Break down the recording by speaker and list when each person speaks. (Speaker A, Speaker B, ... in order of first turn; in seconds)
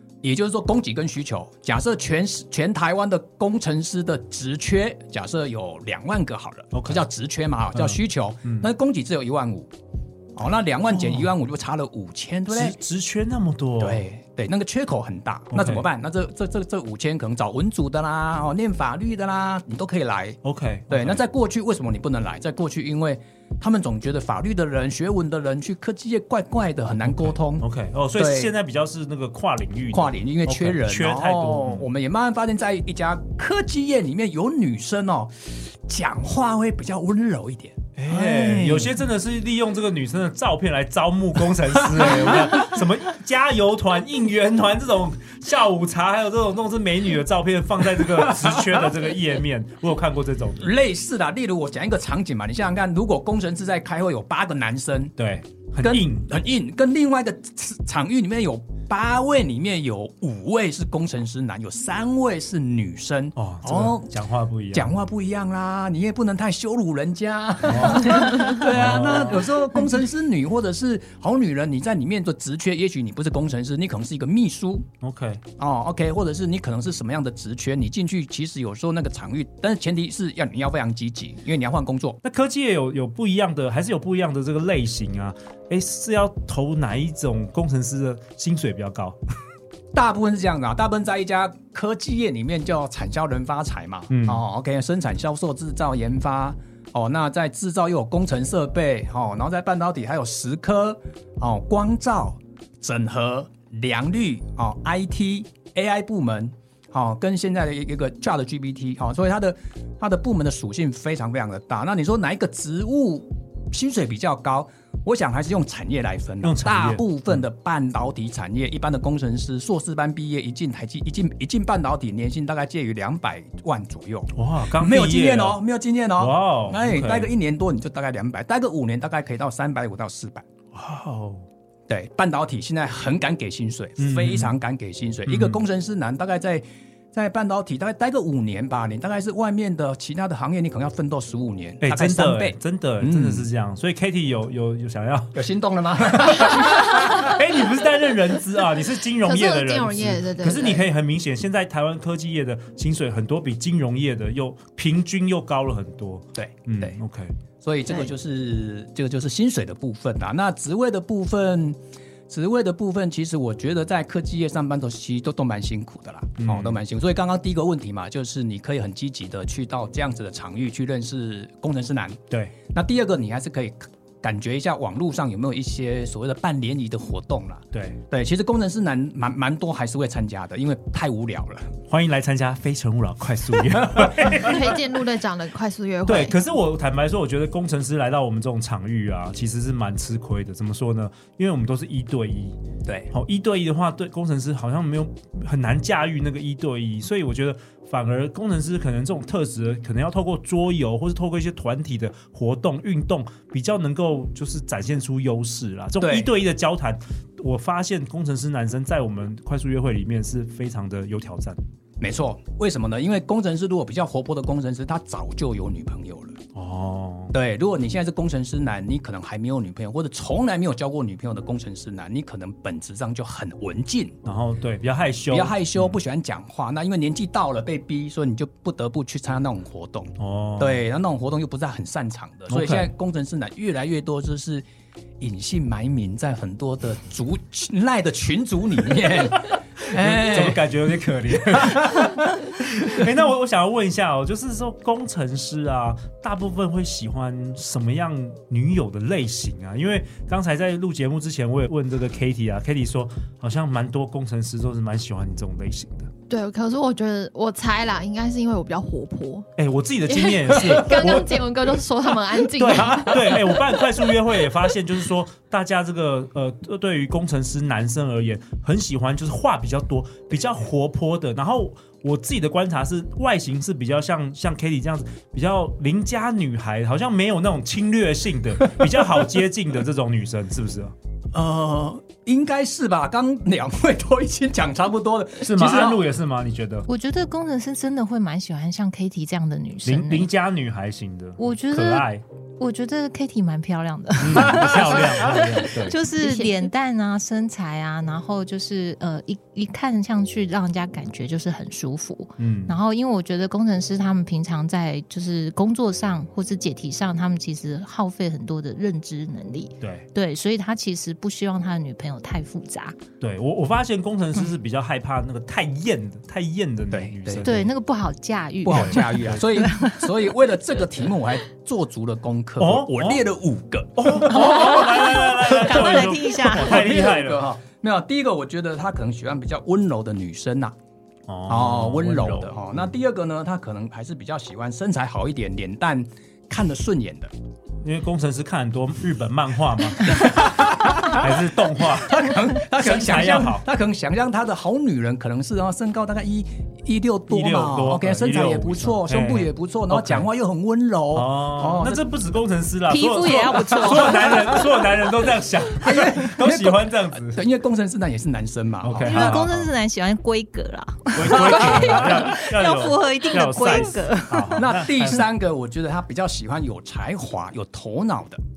Speaker A: 0.2-9.7, 10.3-12.8, 13.8-20.4, 20.9-27.6, 28.2-28.5, 29.9-38.9, 42.0-42.3, 50.6-55.1, 55.8-64.1, 64.7-74.9, 75.6-82.2, 89.9-130.4, 131.9-143.5, 145.3-147.3, 156.3-157.0, 157.6-161.8, 162.3-181.7, 183.8-184.2, 192.8-193.1, 206.0-206.3, 212.0-216.4, 217.3-224.2, 225.3-234.7, 235.2-240.6, 241.4-242.3, 262.8-263.2, 281.3-286.1, 294.3-294.9, 316.9-317.5, 318.6-330.7, 331.5-337.3, 340.0-352.0, 353.5-354.6, 355.8-359.4, 364.5-368.4
Speaker B: 6.7-7.0, 7.7-8.7, 11.0-11.2, 12.5-14.0, 15.5-15.8, 20.4-21.2, 27.2-31.9, 38.0-50.7, 55.2-56.3, 63.4-64.9, 67.6-69.7, 75.0-75.4, 82.2-89.2, 94.1-94.4, 116.4-117.0, 124.3-125.6, 126.2-127.3, 130.7-131.4, 134.0-134.6, 135.3-135.6, 141.8-145.4, 146.1-157.3, 166.4-166.8, 172.3-172.5, 177.7-178.0, 181.9-184.8, 186.1-192.6, 193.1-211.6, 216.5-217.3, 224.2-225.9, 230.2-230.8, 232.5-232.9, 239.9-256.1, 259.6-261.4, 262.6-280.9, 285.4-286.9, 289.8-292.2, 294.2-296.0, 302.4-302.8, 309.8-310.1, 313.2-317.7, 318.7-319.4, 322.6-323.2, 324.0-327.5, 331.3-332.6, 337.8-343.6, 347.3-350.3, 351.1-357.4, 358.8-359.7, 361.1-365.3
Speaker C: 149.2-150.8, 184.2-186.3, 256.3-259.5, 260.1-263.6, 296.2-296.5
Speaker D: 286.9-290.3, 291.4-292.1, 292.6-312.9, 317.4-320.1, 324.2-326.9, 352.9-354.7, 359.0-364.7